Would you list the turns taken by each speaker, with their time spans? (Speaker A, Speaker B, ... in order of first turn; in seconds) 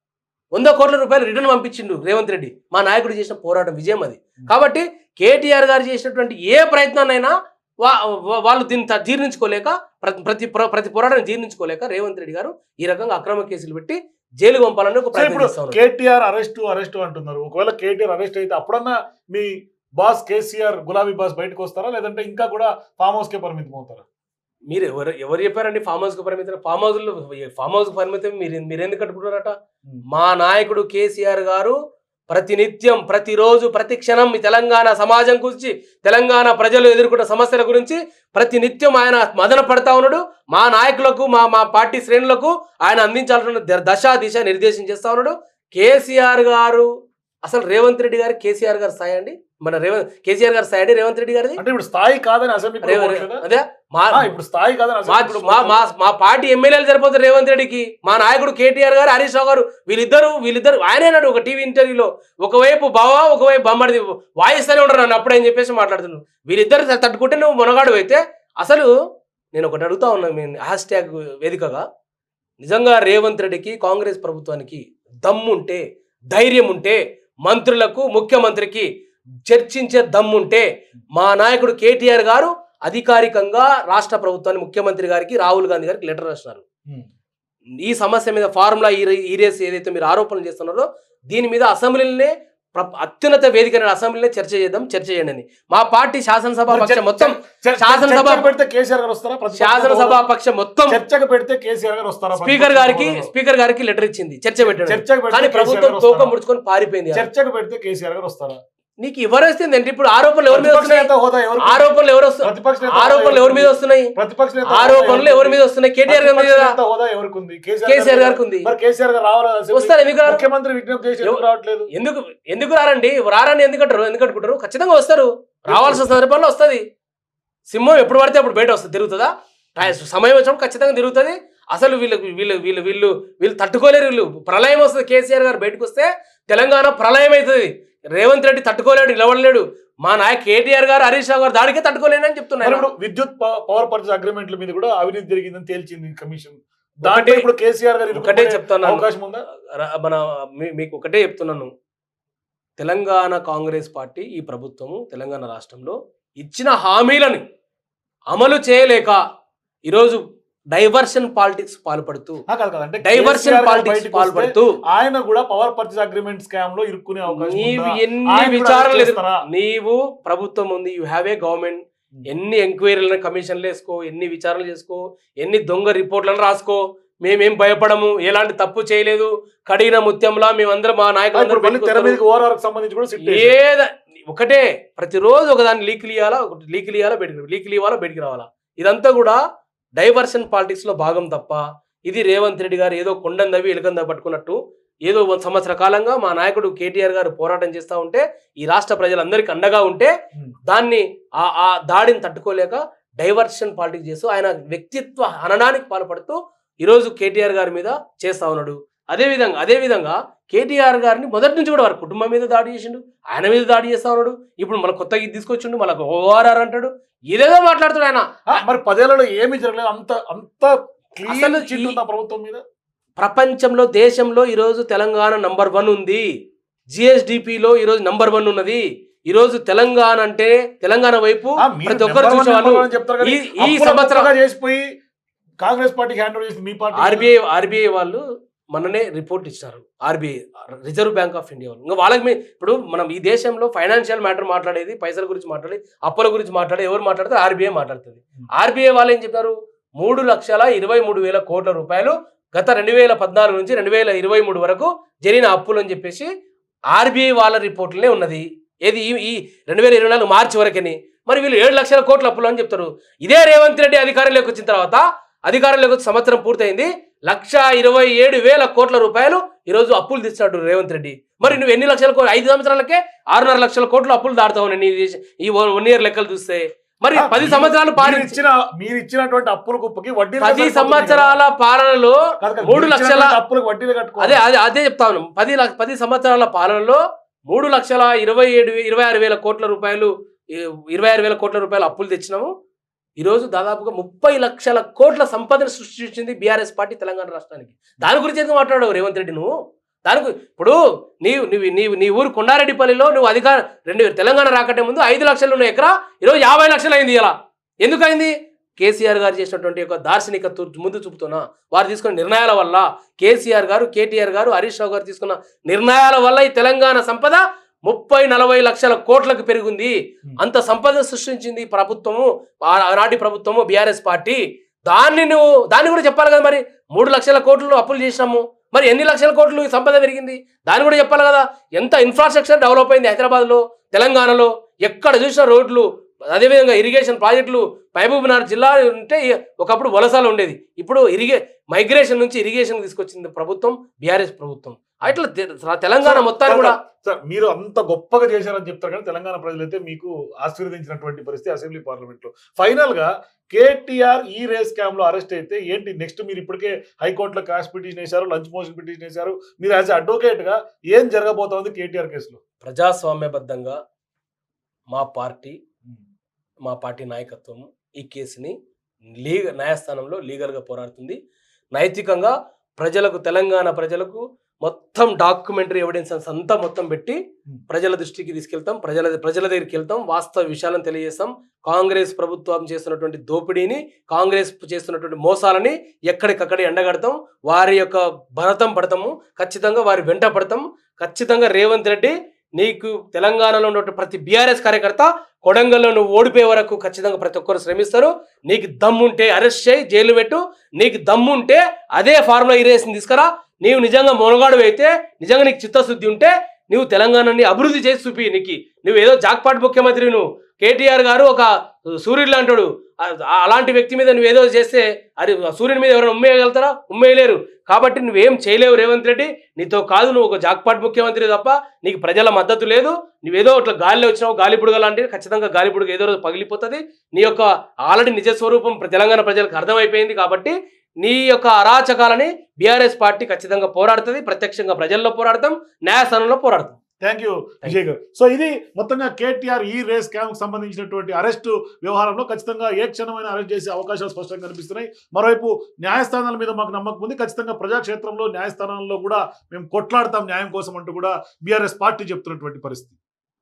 Speaker A: 0.6-15.9, 24.7-29.5, 30.1-31.8, 32.3-46.9, 47.5-51.6, 52.8-54.3, 55.1-68.9, 69.5-71.8, 72.6-78.9, 79.5-86.6, 87.8-98.5, 99.6-101.0, 102.4-107.3, 109.0-111.1, 111.6-114.1, 114.7-116.8, 117.9-118.7, 119.7-120.4, 121.2-126.8, 127.7-142.9, 147.0-147.4, 148.1-149.1, 149.8-151.7, 152.8-157.4, 158.3-159.2, 159.9-160.2, 160.7-162.4, 163.0-164.8, 167.3-182.2, 183.2-189.4, 190.0-200.1, 200.7-218.3, 221.3-222.0, 223.2-226.3, 226.9-234.3, 237.0-238.2, 238.7-256.3, 256.9-278.4, 280.4-283.4, 284.2-292.5, 293.2-299.6, 300.1-346.8, 362.6-363.8, 364.9-365.6, 366.7-368.6, 369.2-371.2, 371.8-436.8
Speaker B: 15.1-24.1, 51.6-53.5, 54.1-55.8, 96.7-100.2, 100.9-103.3, 104.6-106.3, 107.1-108.6, 110.5-121.9, 125.7-126.1, 142.6-149.4, 162.5-169.4, 181.3-183.6, 218.5-222.6, 231.6-234.9, 235.6-237.3, 277.1-281.4, 282.4-284.4, 346.0-362.4, 437.0-453.0